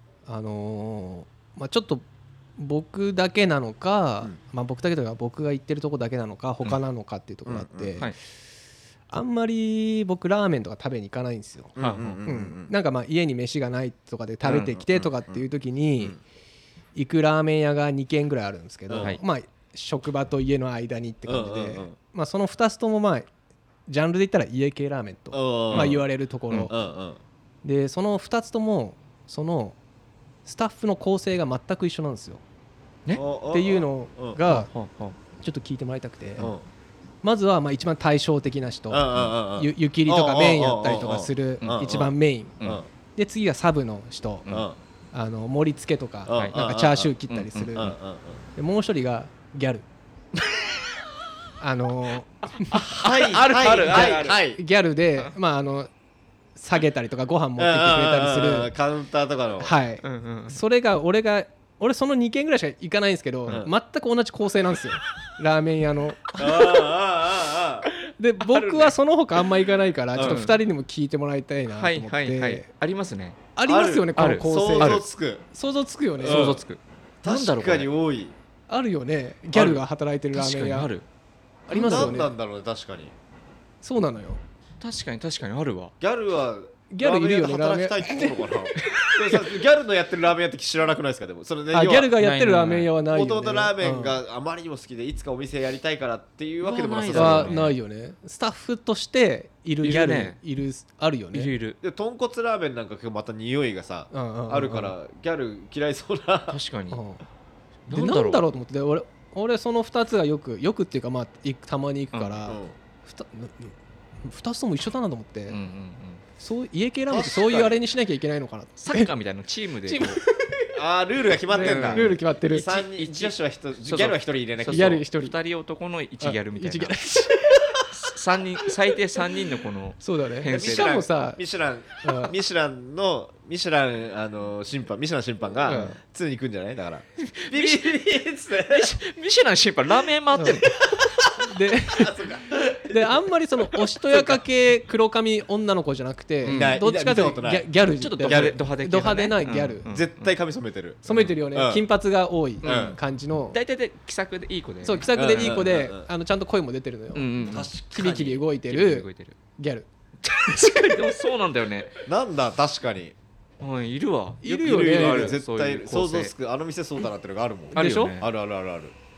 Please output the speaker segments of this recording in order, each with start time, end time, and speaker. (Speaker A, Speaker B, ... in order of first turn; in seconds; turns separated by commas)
Speaker A: 0.2-2.0, Speaker A: 2.6-8.1, Speaker B: 7.5-8.1, Speaker A: 9.1-11.7, Speaker B: 11.8-12.7, Speaker C: 11.8-12.2, Speaker A: 12.2-16.2, Speaker B: 14.5-15.4, Speaker A: 16.9-23.3, Speaker B: 18.9-19.2, Speaker B: 21.2-21.9, Speaker A: 23.9-26.7, Speaker B: 25.3-26.0, Speaker C: 25.7-26.0, Speaker B: 26.7-27.2, Speaker A: 27.6-29.8, Speaker A: 30.4-32.4, Speaker B: 33.1-34.4, Speaker A: 33.5-34.7, Speaker C: 34.5-35.1, Speaker A: 35.4-36.5, Speaker B: 36.4-36.6, Speaker A: 37.2-42.5, Speaker B: 38.9-42.9, Speaker A: 43.1-44.5, Speaker B: 44.5-44.8, Speaker A: 45.1-47.9, Speaker B: 46.2-47.1, Speaker C: 46.3-46.6, Speaker C: 47.3-47.9, Speaker B: 47.8-48.4, Speaker A: 48.5-49.8, Speaker A: 51.6-52.8, Speaker C: 52.5-54.4, Speaker B: 52.9-54.6, Speaker A: 53.9-55.9, Speaker A: 56.5-58.7, Speaker B: 57.6-59.7, Speaker A: 59.6-66.8, Speaker C: 60.0-60.6, Speaker B: 66.4-67.9, Speaker A: 68.2-72.7, Speaker C: 68.4-68.9, Speaker B: 70.1-70.4, Speaker C: 70.2-70.6, Speaker C: 71.7-73.4, Speaker A: 73.5-76.5, Speaker B: 73.6-75.4, Speaker C: 74.2-75.0, Speaker B: 76.2-76.6, Speaker C: 76.2-77.9, Speaker B: 77.2-78.3, Speaker A: 78.7-80.9, Speaker C: 80.3-81.0, Speaker A: 81.7-82.3, Speaker B: 81.7-83.1, Speaker C: 81.8-82.1, Speaker A: 83.8-84.4, Speaker C: 84.8-85.9, Speaker B: 86.0-92.1, Speaker A: 86.9-89.5, Speaker A: 91.7-94.2, Speaker C: 92.2-92.9, Speaker B: 93.1-97.5, Speaker C: 96.6-97.8, Speaker A: 97.1-101.5, Speaker C: 99.8-100.4, Speaker C: 101.3-101.8, Speaker B: 101.8-106.6, Speaker A: 104.1-104.9, Speaker C: 106.5-107.0, Speaker A: 106.9-107.2, Speaker C: 107.9-108.5, Speaker A: 107.9-115.6, Speaker C: 112.1-112.4, Speaker B: 112.5-112.8, Speaker C: 115.5-116.2, Speaker A: 116.4-119.1, Speaker B: 117.1-117.8, Speaker C: 118.8-120.2, Speaker A: 119.9-120.2, Speaker B: 120.7-125.0, Speaker C: 121.5-127.0, Speaker A: 121.5-122.7, Speaker A: 124.7-125.3, Speaker A: 126.2-127.8, Speaker C: 128.0-130.9, Speaker A: 130.0-131.4, Speaker B: 130.5-138.9, Speaker A: 132.0-132.3, Speaker A: 135.6-136.0, Speaker C: 137.3-138.0, Speaker C: 138.6-140.7, Speaker A: 140.3-140.6, Speaker B: 140.4-143.1, Speaker A: 141.4-142.1, Speaker A: 142.9-149.8, Speaker C: 146.4-146.8, Speaker B: 146.5-147.7, Speaker C: 148.0-150.3, Speaker B: 148.2-148.6, Speaker B: 149.8-151.8, Speaker A: 151.0-153.6, Speaker C: 152.6-153.0, Speaker B: 152.6-153.0, Speaker C: 153.5-155.6, Speaker A: 154.8-159.1, Speaker B: 155.1-156.1, Speaker C: 157.1-157.7, Speaker B: 157.4-158.4, Speaker C: 158.6-159.3, Speaker A: 159.6-159.9, Speaker C: 160.2-162.0, Speaker B: 162.0-163.2, Speaker C: 163.6-166.3, Speaker A: 164.4-165.3, Speaker B: 164.6-168.9, Speaker C: 167.7-168.3